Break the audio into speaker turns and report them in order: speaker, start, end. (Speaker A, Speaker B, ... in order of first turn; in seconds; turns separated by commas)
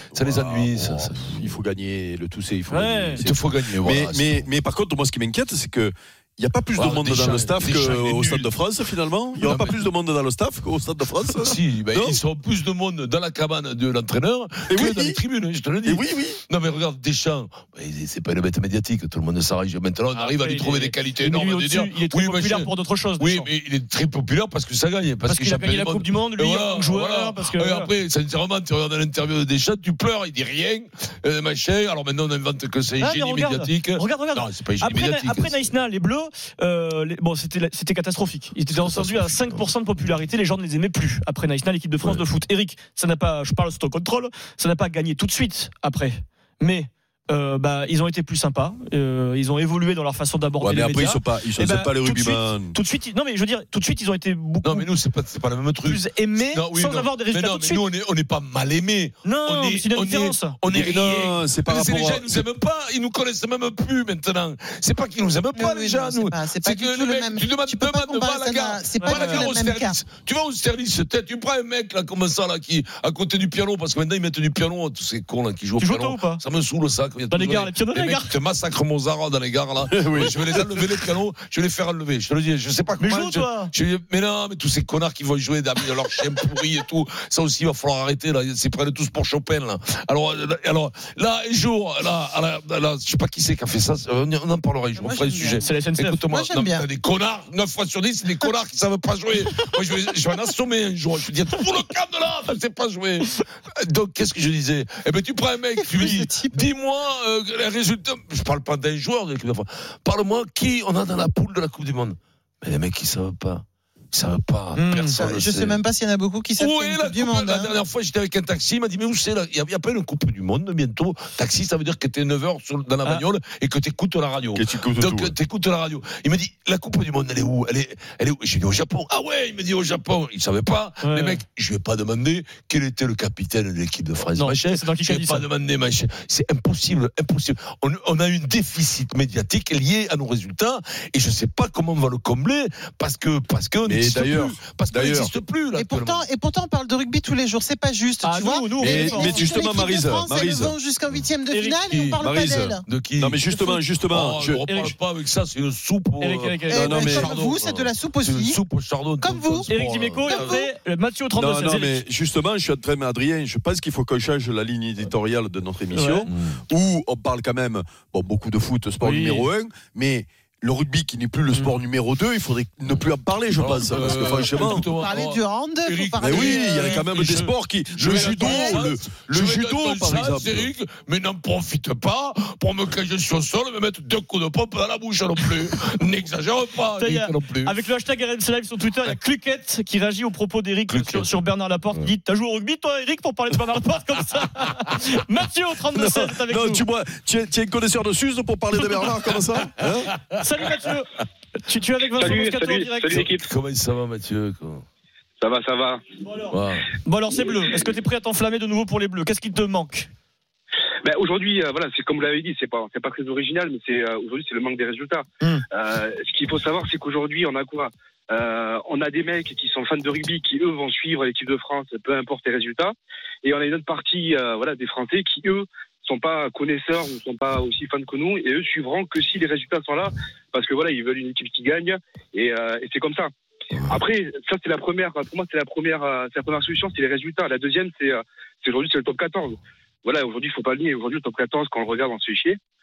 Speaker A: 0.1-1.6, Speaker B: 0.1-12.2, Speaker C: 2.7-3.2, Speaker A: 3.2-4.5, Speaker A: 6.7-8.5, Speaker A: 9.4-9.8, Speaker A: 11.3-35.7, Speaker B: 14.7-15.2, Speaker B: 15.8-16.4, Speaker C: 20.1-23.5, Speaker C: 25.3-27.9, Speaker C: 33.0-54.9, Speaker A: 38.7-39.7, Speaker B: 50.6-52.8, Speaker A: 54.6-115.8, Speaker C: 55.8-57.8, Speaker C: 59.2-60.6, Speaker B: 60.7-62.4, Speaker D: 65.5-70.0, Speaker C: 69.0-69.5, Speaker C: 75.8-76.4, Speaker C: 77.3-78.3, Speaker B: 79.8-81.0, Speaker C: 83.0-83.7, Speaker D: 95.0-95.7, Speaker C: 95.6-96.2, Speaker D: 96.3-96.9, Speaker D: 105.8-106.7, Speaker C: 114.8-115.2, Speaker D: 115.2-117.8, Speaker A: 116.6-146.2, Speaker B: 124.5-125.3, Speaker C: 131.0-131.4, Speaker C: 134.3-135.5, Speaker B: 143.8-145.3, Speaker D: 145.7-152.8, Speaker C: 148.2-149.7, Speaker B: 148.8-150.8, Speaker C: 151.5-151.8, Speaker A: 151.9-152.2, Speaker B: 152.2-154.6, Speaker A: 152.8-160.6, Speaker C: 154.7-154.9, Speaker C: 156.2-157.1, Speaker D: 156.7-158.6, Speaker B: 156.7-157.4, Speaker D: 159.2-160.7, Speaker C: 159.7-162.0, Speaker B: 161.3-174.9, Speaker C: 165.9-166.3, Speaker A: 166.3-166.6, Speaker C: 169.0-169.5, Speaker A: 171.5-171.8, Speaker A: 173.6-187.8, Speaker D: 174.5-177.1, Speaker B: 176.2-180.7, Speaker D: 178.1-178.8, Speaker C: 187.0-196.8, Speaker A: 190.9-191.3, Speaker B: 195.9-200.1, Speaker C: 200.4-203.2, Speaker E: 202.2-203.4, Speaker A: 203.1-204.8, Speaker E: 205.4-206.0, Speaker C: 206.2-210.1, Speaker A: 206.5-206.8, Speaker E: 211.0-233.3, Speaker E: 233.8-242.6